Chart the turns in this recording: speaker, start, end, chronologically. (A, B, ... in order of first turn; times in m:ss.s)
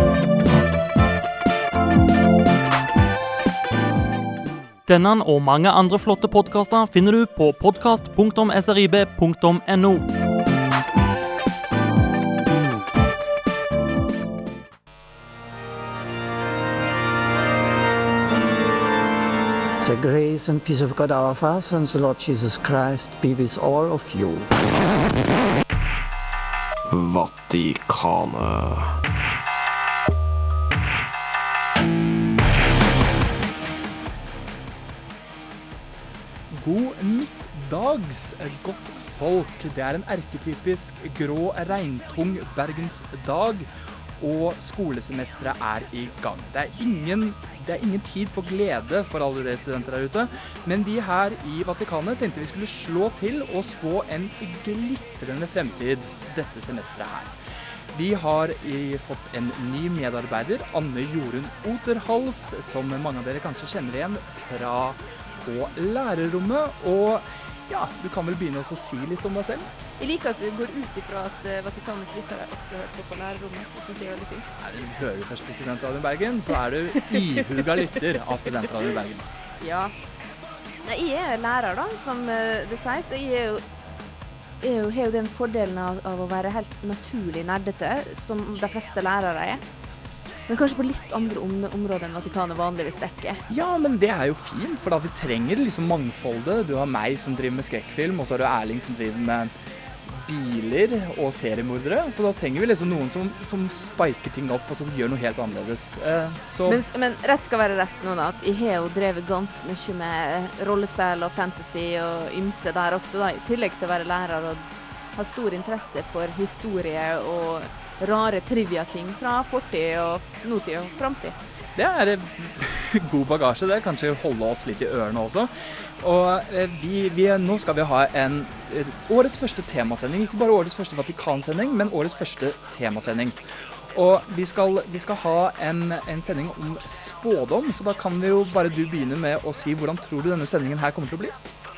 0:04.8-0:10.1 A
0:19.8-0:24.5 B
0:26.9-0:28.9 C
0:36.5-0:43.7 D
0:44.2-0:57.3 D
0:57.9-1:09.7 D
1:10.0-1:14.5 E
1:14.6-1:19.3 D
1:17.0-1:18.7 E
1:19.6-1:19.9 E
1:20.8-1:23.6 E
1:24.6-1:29.6 E
1:30.5-1:33.4 E
1:33.5-1:39.5 D
1:40.0-1:46.8 D
1:46.7-2:01.4 E
2:01.7-2:13.4 D
2:13.9-2:21.3 D